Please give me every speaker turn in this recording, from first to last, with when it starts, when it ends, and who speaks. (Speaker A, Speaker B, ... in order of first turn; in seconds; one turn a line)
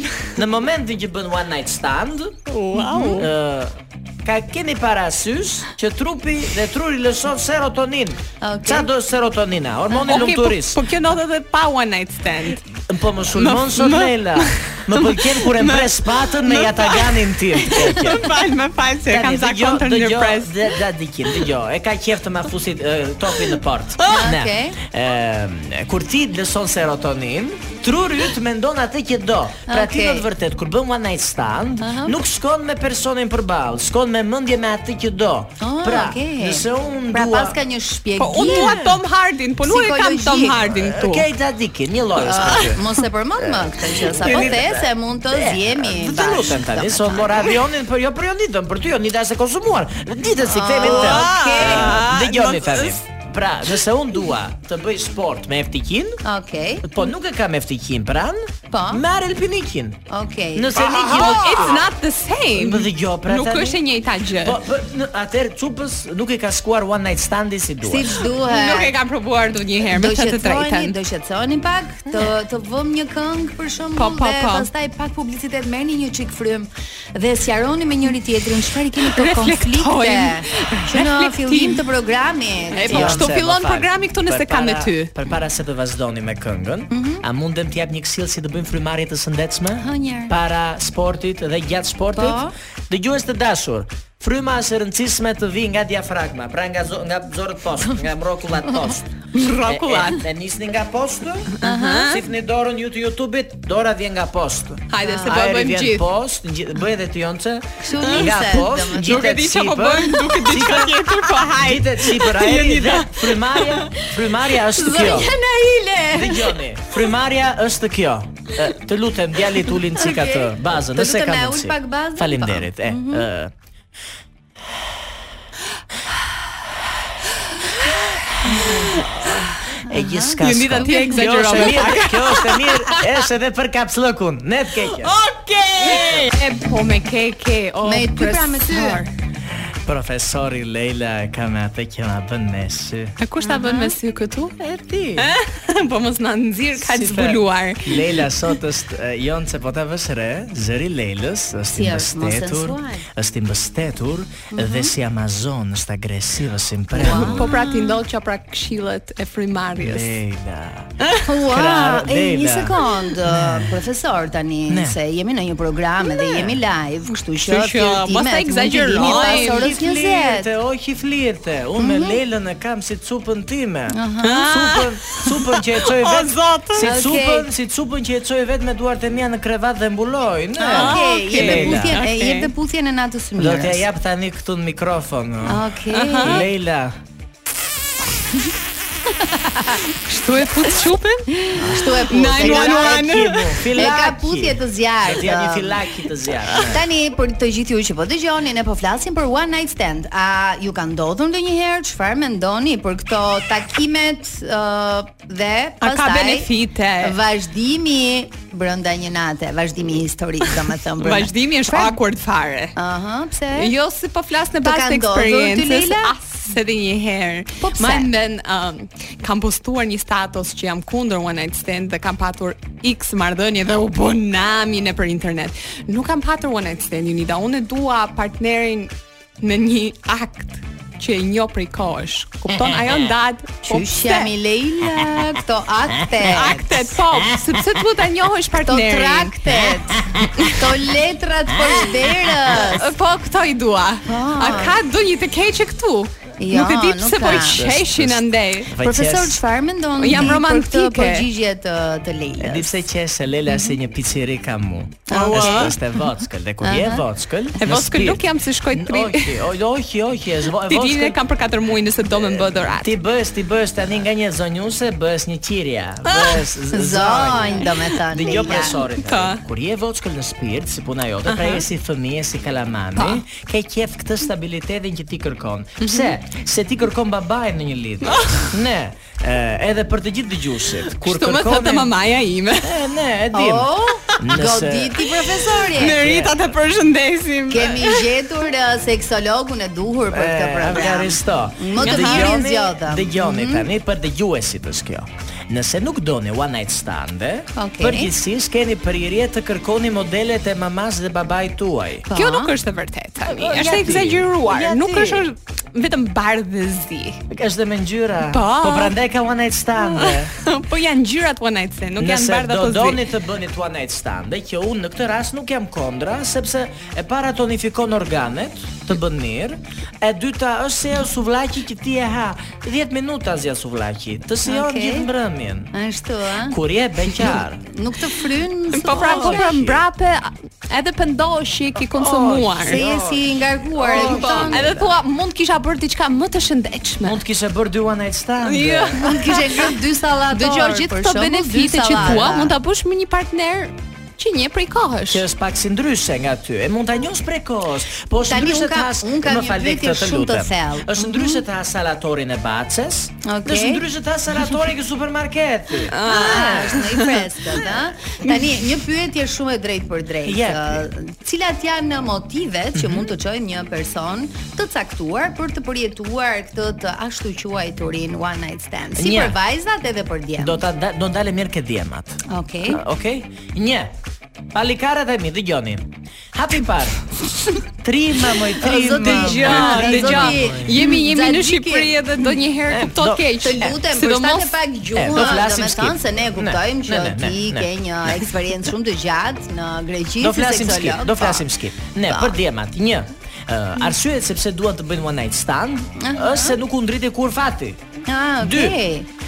Speaker A: 0.3-2.5
Speaker B: 2.5-3.3
Speaker C: 2.8-3.2
Speaker A: 3.2-10.8
Speaker C: 8.4-8.9
Speaker B: 10.1-12.7
Speaker A: 12.9-18.4
Speaker B: 13.3-20.7
Speaker A: 19.1-37.6
Speaker B: 24.0-24.3
Speaker C: 24.1-24.8
Speaker C: 29.7-30.3
Speaker C: 31.8-32.2
Speaker C: 35.6-38.8
Speaker B: 38.2-41.3
Speaker A: 38.3-39.0
Speaker C: 39.6-40.6
Speaker A: 40.7-42.8
Speaker C: 42.2-47.5
Speaker A: 43.4-56.2
Speaker B: 44.2-44.5
Speaker C: 50.5-52.0
Speaker B: 50.8-53.0
Speaker C: 56.2-56.9
Speaker A: 56.8-60.0
Speaker C: 58.7-59.0
Speaker C: 60.1-61.8
Speaker A: 60.5-61.9
Speaker B: 60.8-64.6
Speaker A: 62.6-63.8
Speaker A: 64.4-68.3
Speaker C: 67.8-68.9
Speaker B: 68.5-71.0
Speaker C: 69.9-83.3
Speaker B: 74.0-74.7
Speaker B: 79.0-81.8
Speaker B: 82.7-85.1
Speaker A: 82.9-115.3
Speaker C: 86.9-87.2
Speaker C: 89.8-90.3
Speaker C: 92.1-92.5
Speaker B: 99.3-100.2
Speaker B: 101.6-102.2
Speaker C: 101.6-102.2
Speaker B: 104.9-106.1
Speaker C: 105.0-105.4
Speaker C: 107.8-109.4
Speaker B: 108.0-108.3
Speaker B: 109.0-113.9
Speaker C: 114.8-116.5
Speaker A: 116.1-123.5
Speaker C: 120.0-123.3
Speaker C: 128.4-129.0
Speaker B: 128.9-129.3
Speaker A: 129.8-135.2
Speaker C: 129.9-131.7
Speaker B: 130.4-133.2
Speaker B: 134.8-139.1
Speaker A: 135.9-136.3
Speaker C: 137.8-139.0
Speaker A: 139.8-143.2
Speaker B: 143.2-144.5
Speaker C: 143.4-143.9
Speaker A: 144.6-145.4
Speaker B: 145.2-148.2
Speaker A: 146.8-157.5
Speaker C: 151.7-153.1
Speaker C: 154.5-154.9
Speaker C: 156.9-158.0
Speaker B: 157.0-160.2
Speaker A: 159.8-160.9
Speaker B: 161.0-161.3
Speaker C: 161.2-170.5
Speaker A: 161.4-163.8
Speaker A: 164.7-165.0
Speaker B: 167.4-169.7
Speaker A: 168.9-182.0
Speaker C: 171.8-172.2
Speaker C: 173.9-174.5
Speaker B: 174.2-176.9
Speaker C: 176.8-177.5
Speaker B: 180.6-182.5
Speaker C: 180.7-183.8
Speaker A: 183.4-187.0
Speaker C: 185.5-186.4
Speaker B: 185.9-186.5
Speaker C: 189.2-189.8
Speaker B: 190.0-191.3
Speaker C: 191.4-193.1
Speaker A: 191.6-196.8
Speaker B: 192.1-193.7
Speaker C: 193.8-196.0
Speaker C: 196.5-206.5
Speaker B: 205.8-207.2
Speaker C: 207.0-212.0
Speaker B: 211.0-212.8
Speaker C: 212.8-213.7
Speaker B: 213.5-234.3
Speaker C: 214.6-216.1
Speaker C: 217.6-218.1
Speaker A: 232.5-233.1
Speaker C: 233.6-236.8
Speaker B: 236.2-239.7
Speaker A: 237.2-237.5
Speaker C: 238.6-242.9
Speaker A: 240.0-240.3
Speaker A: 241.5-242.6
Speaker B: 242.6-248.7
Speaker C: 244.1-244.8
Speaker C: 246.4-247.6
Speaker A: 247.2-249.4
Speaker C: 248.8-252.9
Speaker B: 250.0-251.3
Speaker A: 252.4-261.2
Speaker C: 253.5-253.7
Speaker C: 255.1-255.8
Speaker B: 255.3-255.7
Speaker C: 256.6-257.0
Speaker B: 257.6-259.4
Speaker B: 260.6-262.9
Speaker A: 262.1-281.9
Speaker B: 266.1-266.5
Speaker C: 266.7-268.8
Speaker B: 267.6-269.4
Speaker B: 271.3-271.6
Speaker B: 273.0-273.2
Speaker B: 275.8-276.1
Speaker B: 278.1-278.5
Speaker B: 280.9-282.8
Speaker A: 282.6-286.3
Speaker C: 283.3-286.0
Speaker B: 285.8-288.1
Speaker C: 287.5-293.7
Speaker A: 290.1-302.1
Speaker B: 291.8-292.3
Speaker C: 297.6-298.1
Speaker C: 302.1-302.5
Speaker B: 302.1-307.2
Speaker A: 303.2-304.3
Speaker C: 303.4-303.9
Speaker C: 304.5-305.2
Speaker A: 307.3-310.3
Speaker B: 308.3-308.9
Speaker B: 309.8-313.0
Speaker A: 312.0-325.7
Speaker C: 324.5-325.1
Speaker C: 325.7-329.4
Speaker A: 326.5-327.6
Speaker B: 328.7-332.8
Speaker A: 328.9-329.8
Speaker A: 331.9-334.9
Speaker C: 332.7-334.9
Speaker B: 333.9-337.2
Speaker A: 337.0-339.1
Speaker B: 338.4-339.8
Speaker C: 339.0-342.5
Speaker B: 340.3-345.2
Speaker A: 341.9-342.3
Speaker A: 345.1-357.0
Speaker C: 348.2-351.4
Speaker C: 353.2-353.8
Speaker B: 355.9-357.2
Speaker C: 356.1-370.6
Speaker B: 358.2-358.6
Speaker A: 360.2-360.9
Speaker A: 362.7-363.1
Speaker A: 369.0-369.4
Speaker A: 370.4-373.9
Speaker C: 372.3-372.8
Speaker A: 374.5-377.0
Speaker A: 377.8-380.8
Speaker C: 378.6-381.9
Speaker B: 379.0-384.6
Speaker A: 382.7-383.8
Speaker C: 383.4-391.5
Speaker A: 385.0-387.7
Speaker A: 390.2-397.8
Speaker C: 392.1-392.4
Speaker C: 396.0-396.6
Speaker C: 398.1-399.1
Speaker A: 398.4-398.8